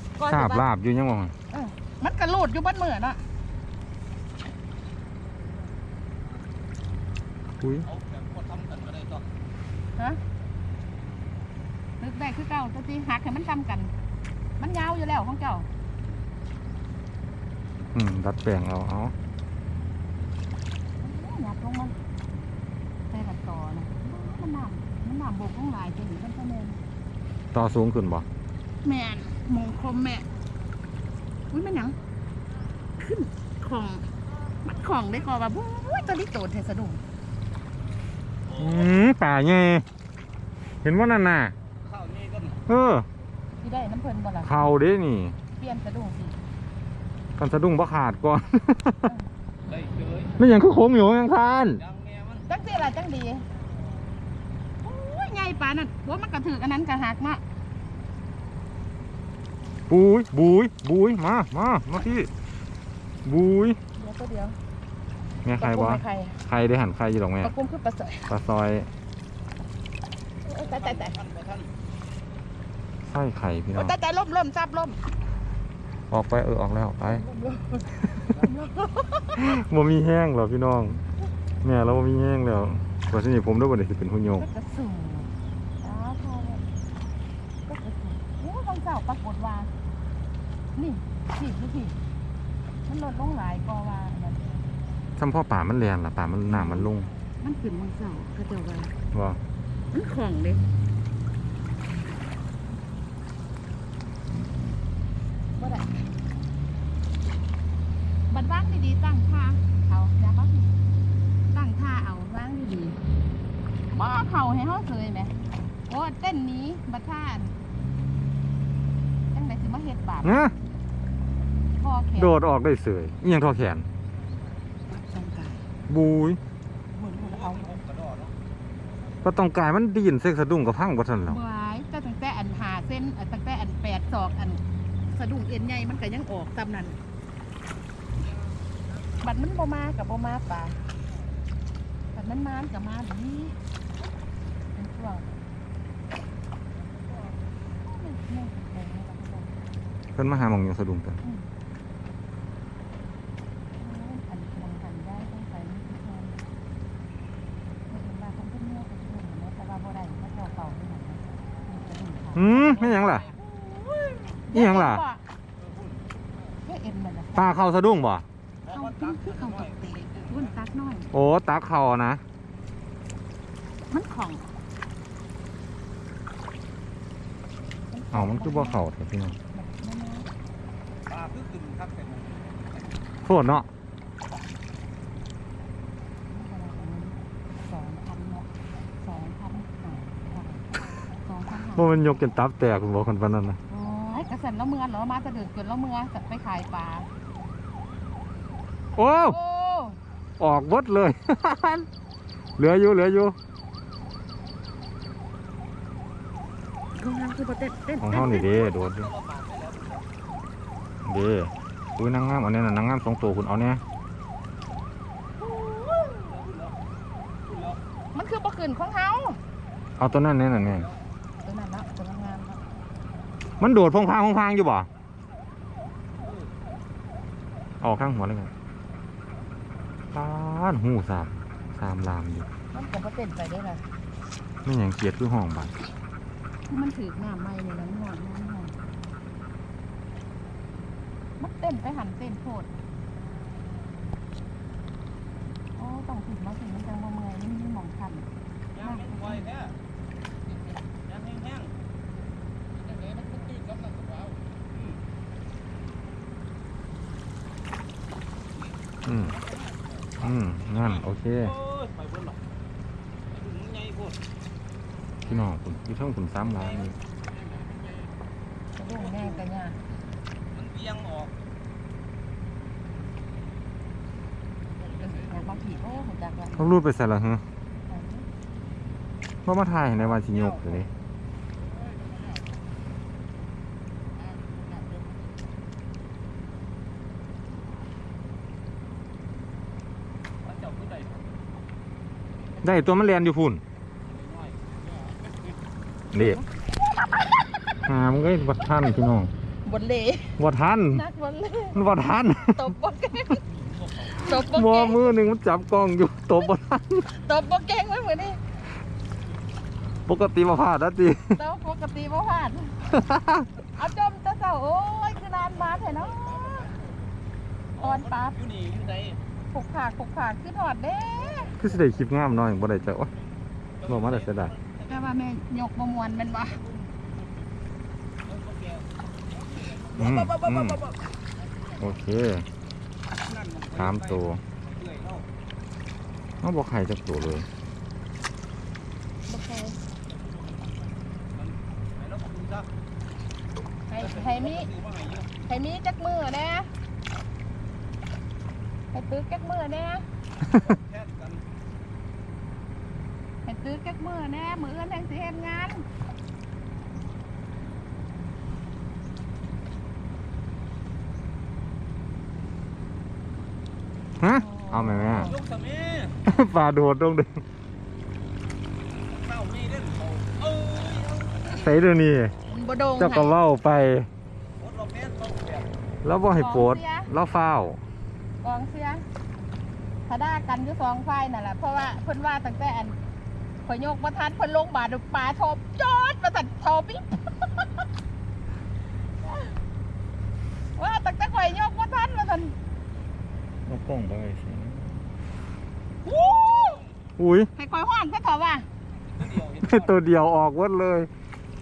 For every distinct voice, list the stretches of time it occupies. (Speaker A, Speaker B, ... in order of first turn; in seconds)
Speaker A: 0.2-0.6, 1.5-3.2, 12.0-13.9, 14.6-15.7, 21.0-21.9, 23.1-26.8, 28.8-30.3, 31.5-31.9, 33.0-34.0, 34.6-37.0, 43.6-44.5, 45.5-46.4, 52.5-53.4, 54.8-57.4, 64.0-64.6, 65.6-66.4, 67.4-68.3, 70.4-71.2, 73.7-75.0, 77.0-79.4, 84.4-85.3, 85.8-86.6, 87.7-89.7, 90.8-92.0, 92.8-94.6, 96.5-98.9, 99.9-100.7, 105.6-105.9, 108.3-110.8, 111.5-113.0, 113.9-115.3, 115.9-117.5, 119.3-120.5, 121.8-122.3, 124.9-125.6, 126.9-127.8, 131.2-137.0, 139.2-140.8, 142.1-143.6, 144.7-145.3, 147.8-149.5, 153.8-156.4, 157.9-162.5, 163.2-165.2, 166.6-167.6, 168.7-171.1, 173.9-174.4, 177.9-178.8, 179.5-180.3, 186.3-188.5, 189.0-191.9, 193.7-197.1, 199.3-200.0, 206.9-208.6, 215.6-216.1, 218.1-219.4, 221.4-222.6, 232.7-233.8, 236.7-238.7, 241.4-242.7, 245.8-248.3, 248.8-249.4, 268.8-269.8, 275.0-276.7, 277.9-278.2, 299.6-300.4, 300.9-301.8, 302.5-303.4, 304.1-305.0, 307.1-308.4, 311.3-312.8, 313.8-316.7, 317.8-318.4, 319.5-321.6, 324.9-326.6, 339.3-339.8, 343.9-344.7, 345.4-346.7, 348.9-350.0, 353.4-355.8, 364.3-365.4, 372.5-373.4, 376.4-377.1, 378.4-379.0, 380.1-382.9, 383.6-387.7, 390.8-392.5, 396.1-396.7, 397.6-398.6
Speaker B: 0.2-1.3, 7.6-7.9, 17.9-19.1, 27.5-28.3, 38.5-39.8, 40.8-41.5, 42.7-43.0, 44.4-45.4, 47.4-49.1, 50.4-51.8, 59.9-62.3, 63.2-63.8, 65.4-67.5, 68.3-68.9, 73.0-73.9, 76.1-77.2, 79.3-81.0, 81.6-84.5, 95.2-97.1, 99.1-99.4, 120.2-120.5, 122.1-123.8, 125.9-126.4, 129.2-131.4, 150.2-151.2, 162.3-163.3, 164.5-165.0, 167.3-168.2, 171.1-172.2, 178.1-179.3, 183.2-183.7, 191.7-193.6, 198.9-199.4, 200.4-201.9, 202.6-203.3, 208.0-209.1, 211.0-213.8, 220.0-220.9, 223.6-224.9, 227.8-228.5, 230.1-232.4, 234.6-235.7, 259.1-259.4, 260.2-261.5, 265.2-267.0, 276.5-277.4, 279.4-280.9, 292.6-293.6, 296.1-296.4, 297.9-299.3, 300.4-301.0, 301.7-302.7, 304.3-307.1, 310.1-311.4, 312.9-313.5, 321.6-323.1, 323.8-324.5, 329.9-330.8, 331.8-332.5, 333.8-334.4, 336.4-337.5, 364.2-365.3, 366.2-367.4, 371.5-372.3, 373.0-374.1, 376.0-377.8, 393.6-395.0, 397.2-397.5, 399.6-401.1
Speaker C: 7.8-9.2, 38.5-38.9, 41.8-42.6, 49.7-50.3, 51.7-52.4, 70.5-71.7, 127.1-128.3, 162.6-163.3, 165.6-166.0, 168.6-170.5, 181.1-182.9, 208.3-210.1, 216.0-216.8, 217.5-217.8, 220.6-221.0, 226.2-226.5, 248.7-249.7, 251.1-251.7, 259.3-262.4, 263.3-264.2, 269.0-269.4, 270.5-271.3, 280.0-280.9, 290.4-291.3, 294.0-294.6, 303.5-304.3, 317.8-319.2, 323.8-325.1, 326.6-326.9, 328.2-328.9, 329.7-331.0, 333.2-335.2, 341.3-342.7, 344.0-345.3, 350.5-351.4, 365.2-366.2, 369.0-371.7, 374.6-375.7, 396.0-396.9, 399.1-400.0